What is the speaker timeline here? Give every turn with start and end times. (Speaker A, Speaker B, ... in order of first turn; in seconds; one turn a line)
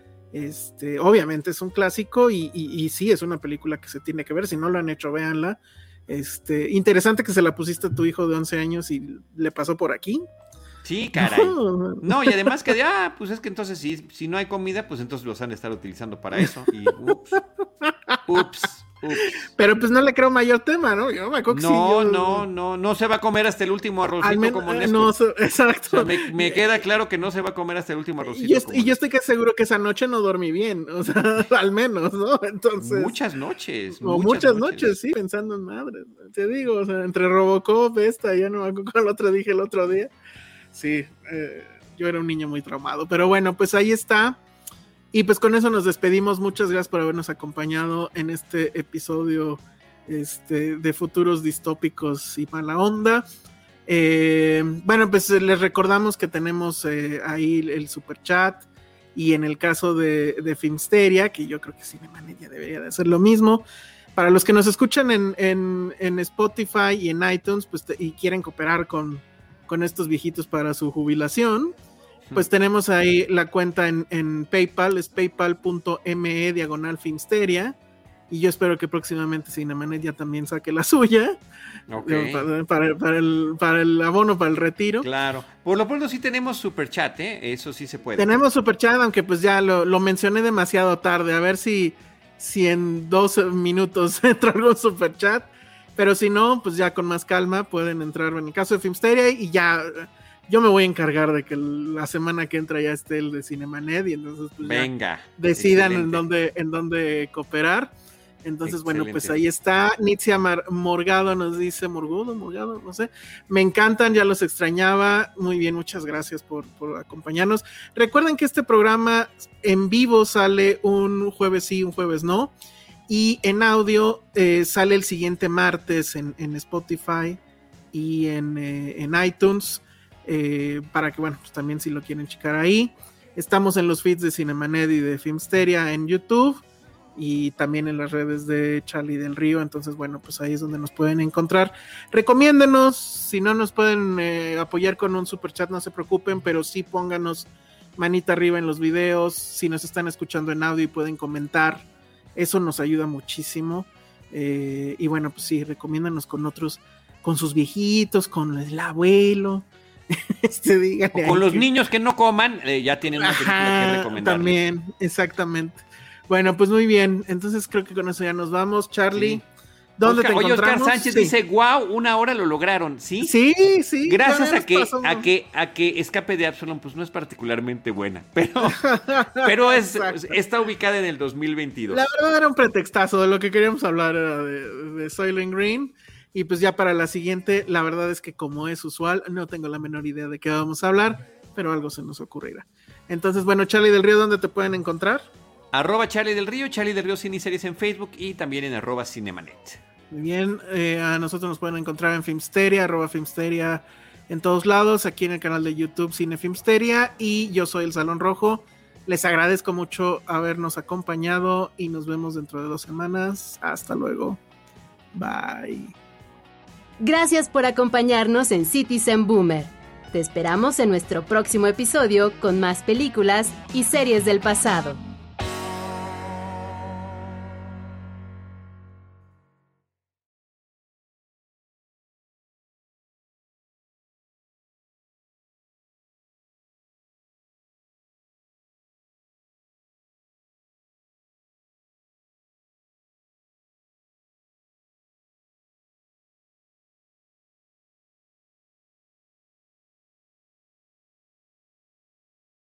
Speaker A: 0.3-10.2
Speaker B: 10.8-17.4
Speaker A: 11.1-12.7
Speaker A: 17.1-18.4
Speaker B: 18.2-19.4
Speaker A: 19.2-22.5
Speaker B: 21.5-25.1
Speaker A: 24.2-26.7
Speaker B: 25.9-29.0
Speaker A: 28.2-33.1
Speaker B: 32.8-35.0
Speaker A: 34.0-40.1
Speaker A: 40.7-44.4
Speaker A: 45.1-53.2
Speaker A: 53.9-63.6
Speaker A: 64.2-71.7
Speaker A: 72.3-77.8
Speaker A: 78.3-81.4
Speaker B: 81.9-82.5
Speaker A: 82.0-85.1
Speaker B: 85.0-88.4
Speaker A: 88.2-107.9
Speaker B: 104.6-106.2
Speaker A: 108.4-122.5
Speaker B: 108.7-109.4
Speaker A: 123.1-127.4
Speaker A: 127.9-136.6
Speaker A: 137.2-161.7
Speaker B: 161.1-164.6
Speaker A: 163.2-169.4
Speaker B: 169.1-169.4
Speaker A: 170.0-171.3
Speaker B: 170.0-173.3
Speaker A: 173.2-175.3
Speaker B: 174.1-178.8
Speaker A: 178.6-180.4
Speaker B: 179.4-182.0
Speaker A: 181.9-195.3
Speaker B: 195.7-199.8
Speaker A: 200.1-214.4
Speaker A: 215.1-215.9
Speaker C: 217.0-225.0